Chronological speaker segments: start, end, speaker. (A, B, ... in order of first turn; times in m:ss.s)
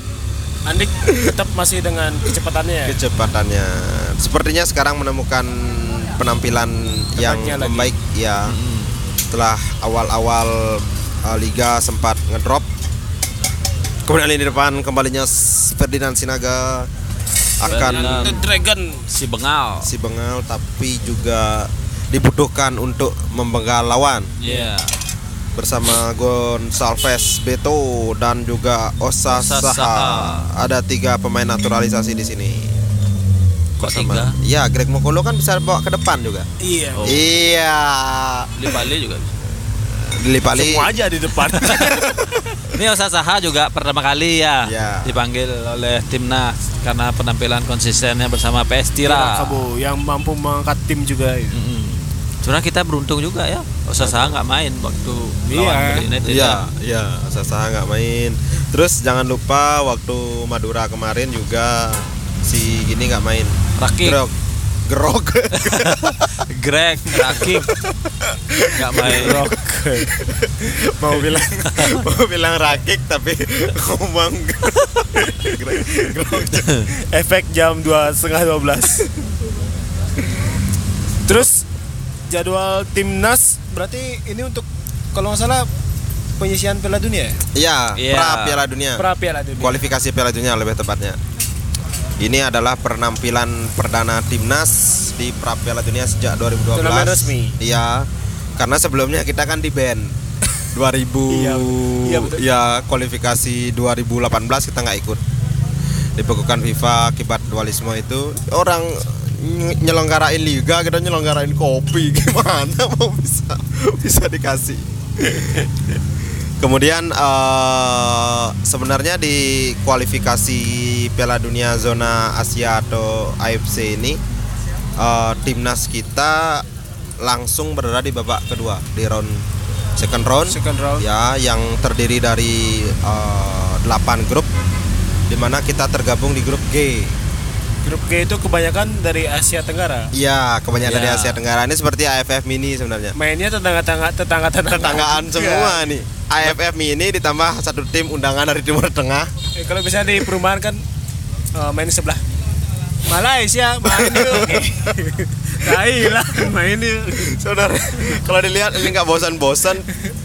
0:00.7-0:03.0 A
0:02.8-0:08.6 B
0:07.2-0:07.9 A
0:08.4-0:09.0 C
0:09.3-0:12.7 B
0:14.1-0:16.9 B
0:17.6-0:18.4 B
0:17.6-0:18.4 C
0:17.6-0:19.0 A
0:19.1-0:19.9 C
0:19.8-0:24.3 B
0:24.4-0:24.9 C
0:24.4-0:24.7 A
0:25.6-0:32.7 B
0:29.3-0:30.5 C
0:33.8-0:34.4 C
0:33.8-0:36.5 B
0:36.6-0:37.2 A
0:37.0-0:37.3 C
0:37.0-0:38.5 B
0:38.6-0:39.3 C
0:39.9-0:40.9 B
0:40.5-0:42.4 A
0:41.4-0:49.6 C
0:44.6-0:45.2 B
0:49.0-0:51.6 A
0:51.5-0:56.6 C
0:54.0-0:54.4 B
0:55.5-0:56.0 A
0:56.2-1:06.4 B
1:03.8-1:04.2 C
1:05.5-1:07.7 C
1:07.1-1:09.4 B
1:08.6-1:09.4 C
1:09.0-1:10.1 A
1:10.1-1:16.7 B
1:11.7-1:12.0 C
1:15.2-1:16.1 A
1:16.6-1:16.8 C
1:16.9-1:19.1 A
1:21.2-1:21.6 A
1:22.3-1:25.7 A
1:26.4-1:27.4 A
1:27.5-1:29.0 B
1:28.0-1:28.6 C
1:29.0-1:29.8 A
1:29.6-1:31.2 B
1:32.2-1:38.1 B
1:36.7-1:37.6 A
1:38.6-1:40.1 B
1:40.7-1:45.2 B
1:41.3-1:42.4 A
1:46.2-1:55.7 B
1:56.6-2:04.2 B
2:05.0-2:06.6 B
2:07.2-2:09.4 B
2:10.0-2:14.5 B
2:10.5-2:11.0 A
2:15.3-2:17.1 B
2:17.8-2:20.1 A
2:20.1-2:23.1 B
2:20.8-2:21.4 C
2:23.1-2:25.9 A
2:24.7-2:29.3 B
2:29.6-2:30.8 A
2:31.5-2:32.2 A
2:33.1-2:37.4 A
2:33.8-2:34.8 B
2:35.6-2:36.5 B
2:37.1-2:39.8 B